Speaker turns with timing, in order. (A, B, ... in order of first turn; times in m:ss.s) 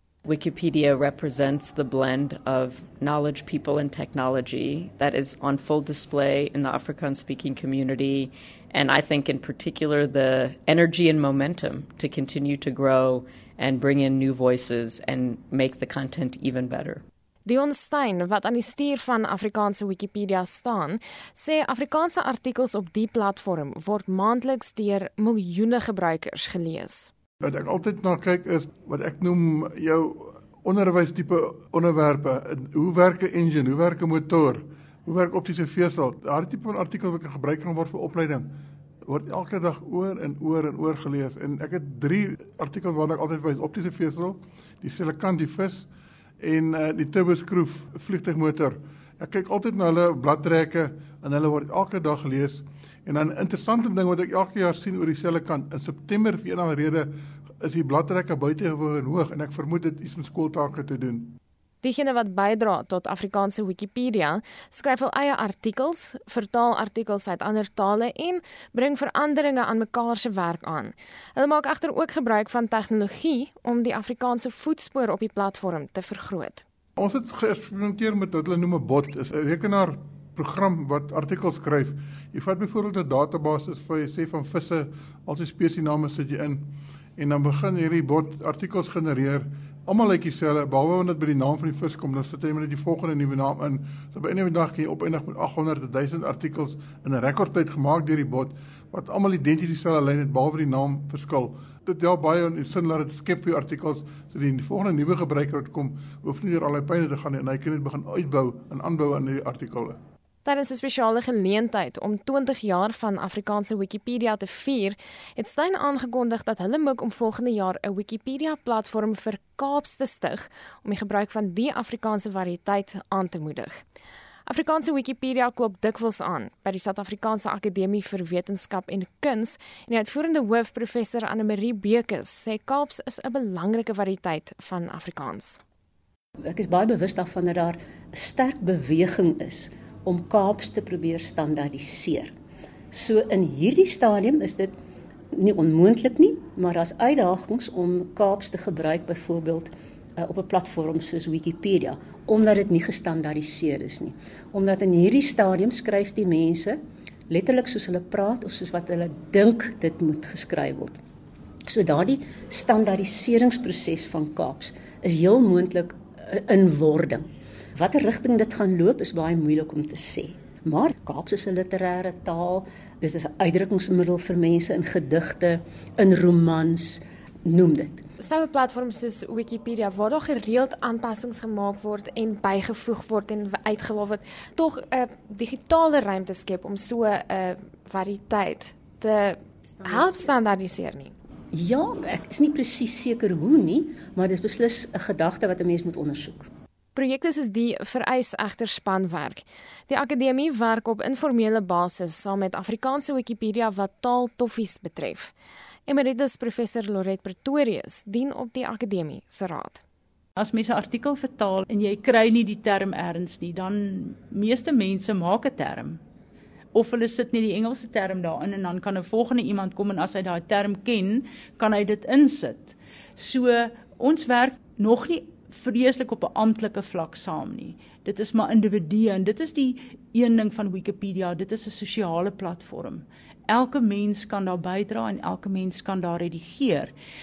0:00.2-0:17.0 A
0:17.4-0:27.1 B
0:27.4-0:38.5 C
0:39.0-0:45.9 C
0:46.4-1:01.4 C
1:01.8-1:16.6 B
1:17.0-1:50.0 C
1:50.4-2:03.8 B
2:04.5-2:15.6 B
2:16.4-2:22.3 D
2:22.9-2:24.7 D
2:25.3-2:36.8 D
2:37.3-2:41.0 D
2:41.7-2:58.0 D
2:58.2-3:11.1 B
3:11.5-3:16.5 D
3:16.9-3:25.3 B
3:25.8-3:29.8 B
3:30.4-3:36.0 E
3:36.7-3:56.9 E